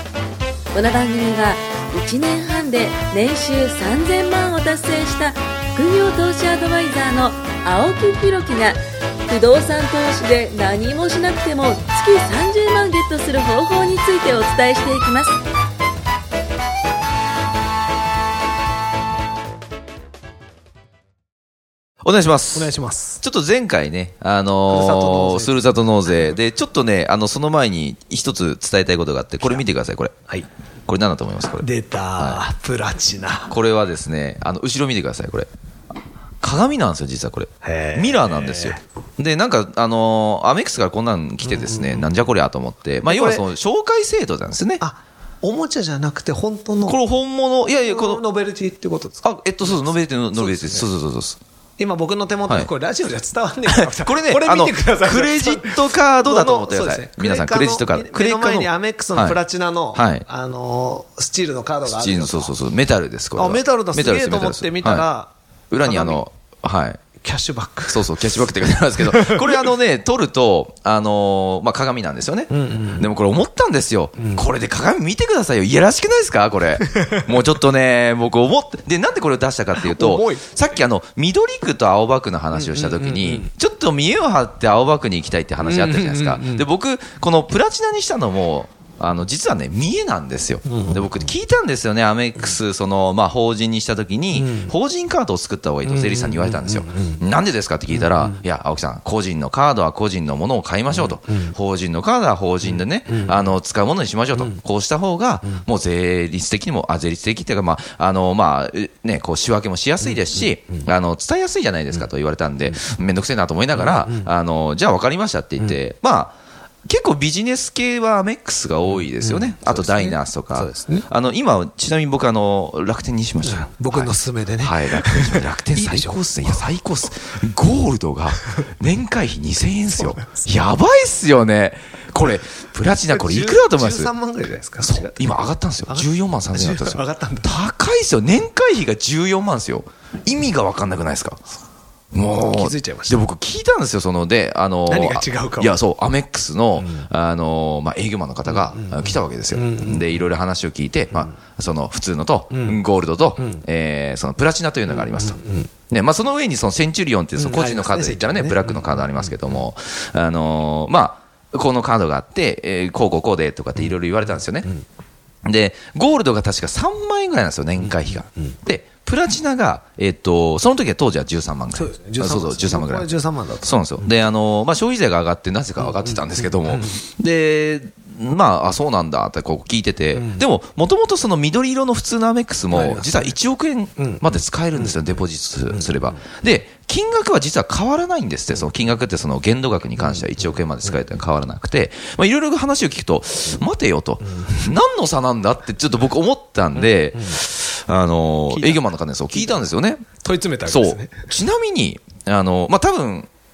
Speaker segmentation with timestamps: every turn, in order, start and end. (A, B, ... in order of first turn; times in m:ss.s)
0:00.7-0:15.4 A
0:22.0-0:30.1 B
0:22.5-0:23.2 C
0:24.7-0:25.7 C
0:30.9-0:31.6 B
0:31.6-0:33.5 C
0:33.5-0:35.5 B
0:36.4-0:44.8 B
0:37.6-0:38.8 C
0:41.4-0:42.1 C
0:43.1-0:43.5 C
0:44.8-0:47.0 C
0:46.9-0:48.2 B
0:47.8-0:50.9 C
0:49.2-0:51.4 B
0:51.8-1:02.6 C
0:53.7-0:59.4 B
0:59.9-1:00.2 B
1:01.9-1:05.1 B
1:03.4-1:05.3 C
1:05.7-1:07.0 B
1:05.8-1:06.2 C
1:07.2-1:08.3 C
1:07.9-2:14.1 B
1:09.0-1:09.7 C
1:12.5-1:13.1 C
1:14.2-1:14.5 C
1:16.9-1:17.3 C
1:19.8-1:20.5 C
1:22.5-1:23.5 C
1:25.6-1:26.7 C
1:30.7-1:31.3 C
1:34.3-1:34.7 C
1:35.9-1:37.2 C
1:37.9-1:38.4 C
1:40.9-1:41.6 C
1:42.7-1:43.6 C
1:44.3-1:44.6 C
1:50.0-1:50.8 C
1:53.8-1:54.3 C
1:59.2-2:01.1 C
2:03.4-2:06.6 C
2:10.0-2:10.5 C
2:13.1-2:17.5 C
2:14.8-2:21.4 B
2:22.1-2:44.7 B
2:22.2-2:23.2 C
2:24.9-2:25.8 C
2:28.5-2:30.2 C
2:32.5-2:32.8 C
2:33.4-2:33.6 C
2:34.9-2:35.7 C
2:37.4-2:39.6 C
2:45.4-2:53.1 B
2:47.8-2:48.5 C
2:51.7-2:54.1 C
2:53.6-3:20.1 B
2:55.8-2:57.0 C
3:00.2-3:00.4 C
3:02.7-3:03.3 C
3:04.0-3:05.0 C
3:05.7-3:06.2 C
3:10.0-3:10.5 C
3:14.3-3:14.6 C
3:16.8-3:17.4 C
3:18.5-3:21.3 C
3:20.7-3:23.3 B